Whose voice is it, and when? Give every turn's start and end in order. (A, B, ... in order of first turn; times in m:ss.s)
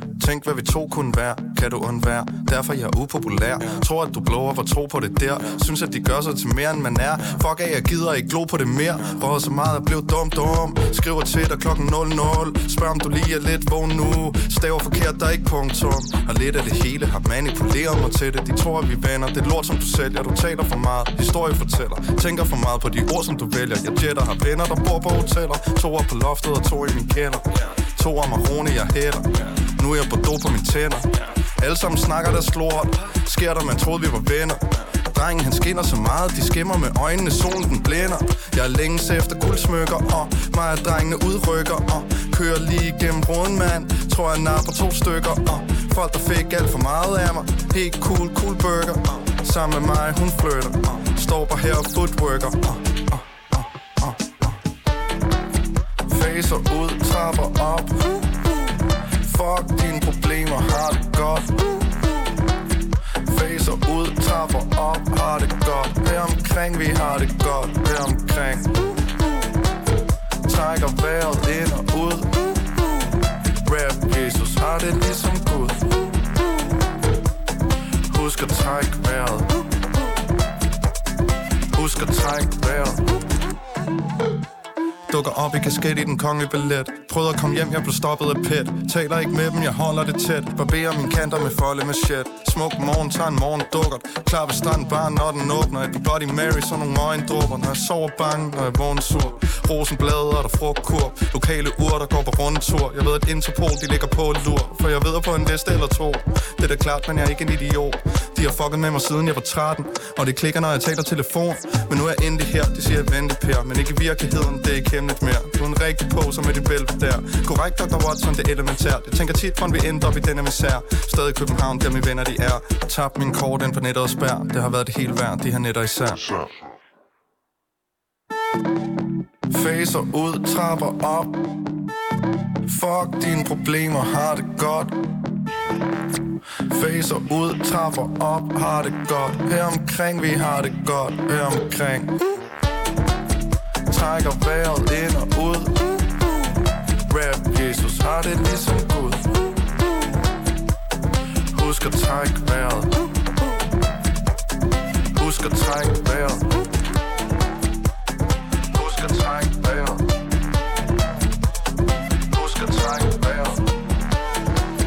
0:00.2-0:54.6 A
0:56.0-0:58.3 A
0:59.2-1:01.9 A
1:03.2-1:08.7 A
1:10.4-1:12.6 A
1:13.6-1:16.0 A
1:18.1-1:19.6 A
1:21.7-1:23.1 A
1:25.1-2:06.3 A
2:09.5-2:11.5 A
2:12.6-2:14.9 A
2:16.7-2:22.2 A
2:23.9-2:26.0 A
2:27.1-2:29.4 A
2:31.5-2:33.0 A
2:35.1-2:36.5 A
2:38.7-2:40.2 A
2:42.3-2:43.6 A